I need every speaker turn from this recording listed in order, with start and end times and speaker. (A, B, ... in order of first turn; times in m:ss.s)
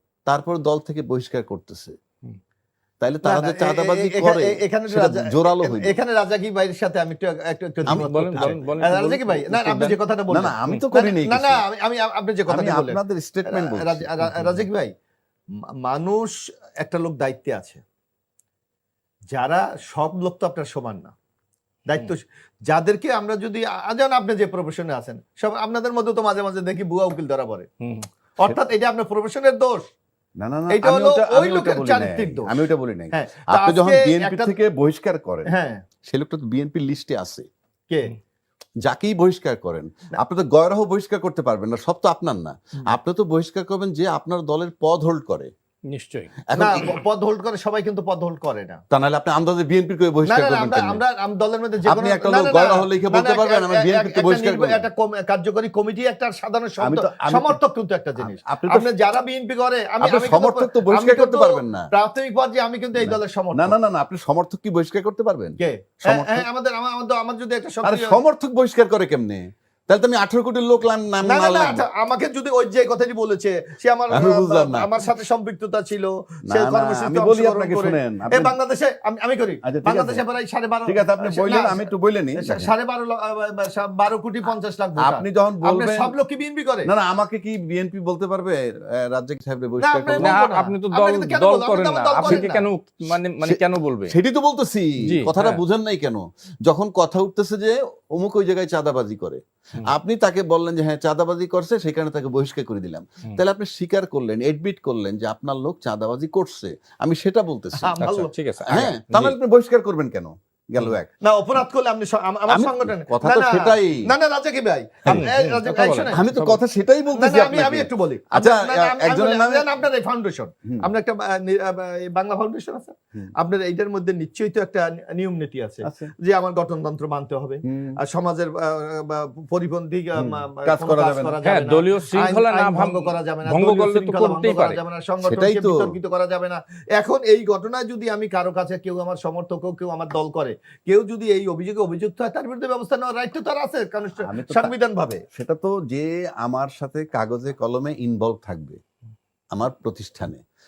0:00.3-0:01.9 A
0:03.0-0:06.0 A
0:03.2-0:14.9 B
0:07.9-0:11.6 A
0:07.9-0:09.2 C
0:12.5-0:14.6 A
0:15.8-0:17.8 B
0:19.3-0:21.1 B
0:21.9-0:27.7 B
0:27.8-0:28.1 C
0:28.4-0:29.8 B
0:30.4-0:35.5 A
0:30.7-0:34.6 B
0:35.5-0:35.8 B
0:36.1-0:37.5 A
0:37.9-0:38.2 B
0:38.8-0:45.5 A
0:45.9-0:46.4 C
0:46.5-0:47.0 A
0:46.6-0:48.8 B
0:48.9-0:51.0 A
0:50.3-1:03.8 B
0:51.9-0:54.8 A
0:56.8-0:57.6 A
0:58.2-0:58.9 A
1:00.0-1:01.9 A
1:03.0-1:06.5 A
1:05.6-1:08.2 B
1:07.8-1:11.8 A
1:11.2-1:26.9 B
1:14.1-1:14.9 A
1:16.5-1:18.6 A
1:19.6-1:20.2 A
1:20.9-1:22.7 A
1:25.0-1:26.1 A
1:26.9-1:30.5 A
1:29.8-1:32.6 B
1:30.2-1:34.2 C
1:32.2-1:32.6 A
1:33.4-1:47.9 A
1:35.0-1:35.6 C
1:47.8-1:48.8 B
1:48.0-1:49.4 C
1:48.6-1:51.1 A
1:51.2-1:56.2 B
1:52.5-1:54.1 A
1:55.1-1:56.6 C
1:56.1-1:59.7 A
1:57.1-2:25.2 B
2:05.8-2:06.1 A
2:07.6-2:08.0 A
2:10.2-2:11.4 A
2:11.4-2:14.8 C
2:15.2-2:15.9 A
2:24.2-2:24.7 A
2:25.3-2:28.8 A
2:29.5-2:30.4 A